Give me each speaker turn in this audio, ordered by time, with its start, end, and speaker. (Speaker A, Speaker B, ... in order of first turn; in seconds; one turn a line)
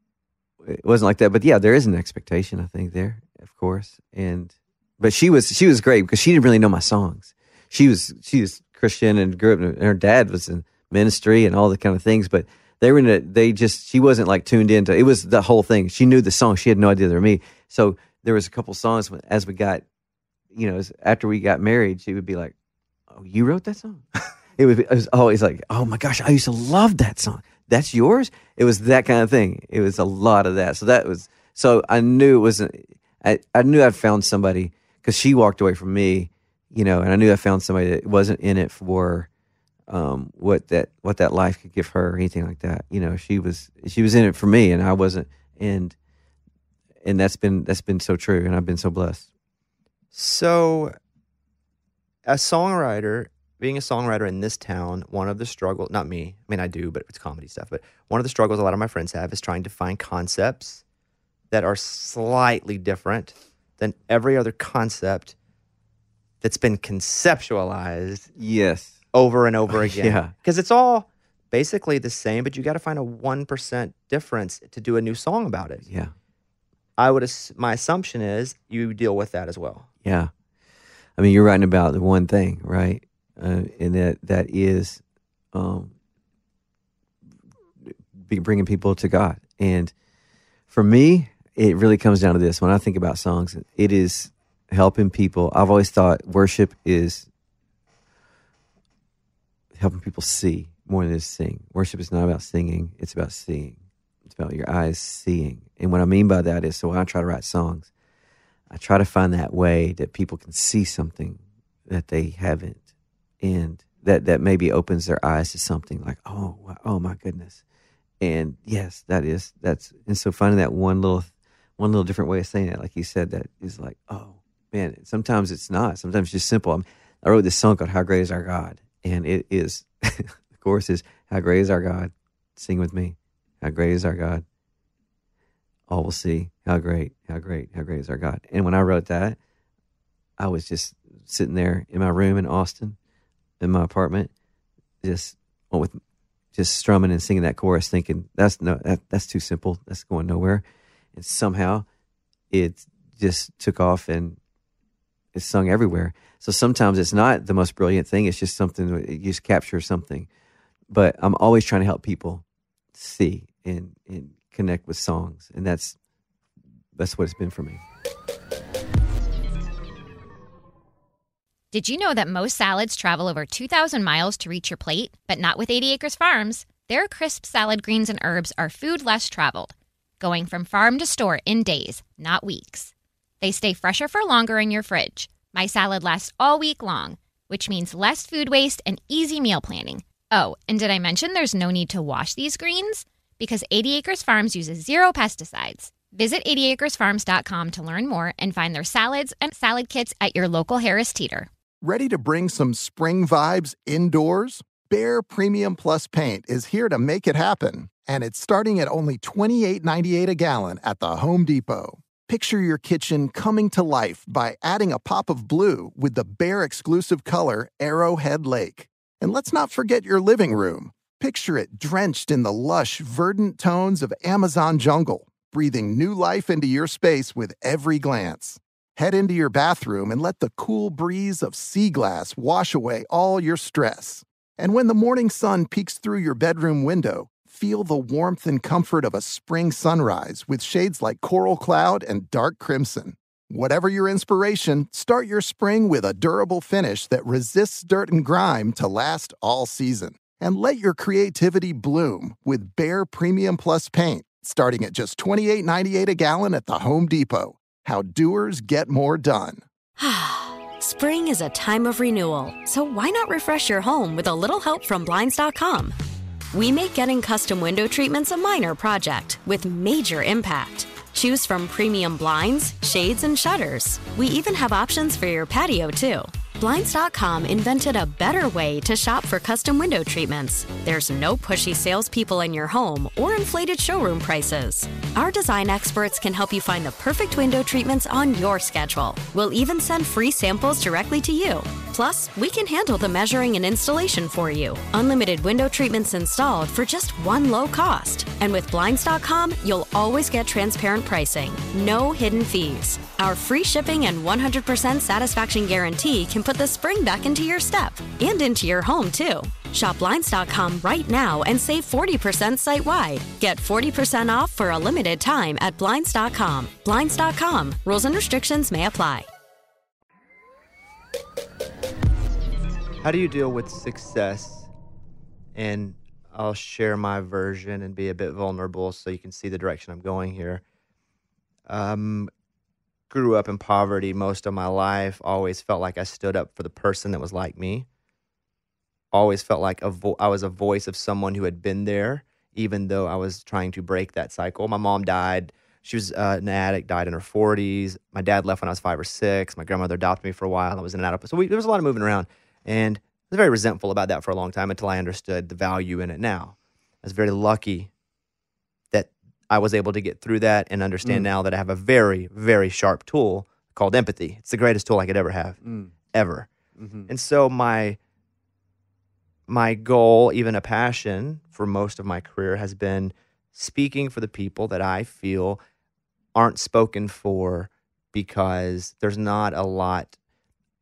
Speaker A: 0.6-19.8
Speaker A: 20.5-22.5
Speaker A: 23.1-24.0
Speaker A: 24.6-39.3
Speaker A: 39.9-45.9
Speaker A: 47.0-49.3
Speaker B: 50.1-50.9
Speaker B: 52.2-60.8
Speaker B: 61.5-65.3
Speaker B: 66.4-68.3
Speaker A: 68.4-69.0
Speaker B: 69.1-75.8
Speaker A: 69.9-70.3
Speaker A: 75.8-76.1
Speaker B: 77.0-79.9
Speaker A: 80.0-80.3
Speaker A: 81.2-85.0
Speaker A: 85.5-85.9
Speaker A: 87.8-89.9
Speaker A: 90.7-97.3
Speaker A: 99.7-107.9
Speaker A: 108.7-112.8
Speaker A: 113.4-117.6
Speaker A: 118.2-134.4
Speaker A: 135.9-139.4
Speaker A: 140.4-143.0
Speaker A: 143.6-144.3
Speaker A: 145.0-146.0
Speaker A: 146.5-150.6
Speaker A: 151.1-151.8
Speaker A: 152.5-154.4
Speaker A: 155.3-160.3
Speaker A: 160.9-162.4
Speaker A: 162.9-165.9
Speaker A: 166.9-167.8
Speaker C: 171.7-201.5
Speaker D: 201.8-259.6
Speaker E: 260.0-265.9
Speaker E: 266.5-319.2
Speaker B: 323.0-324.7
Speaker B: 325.5-330.6
Speaker B: 331.7-332.3
Speaker B: 333.1-337.9
Speaker B: 339.1-357.9
Speaker B: 358.9-365.6
Speaker A: 361.0-361.3
Speaker B: 366.1-366.5
Speaker A: 366.8-367.1
Speaker B: 367.1-368.0
Speaker B: 369.5-375.6
Speaker B: 376.3-380.1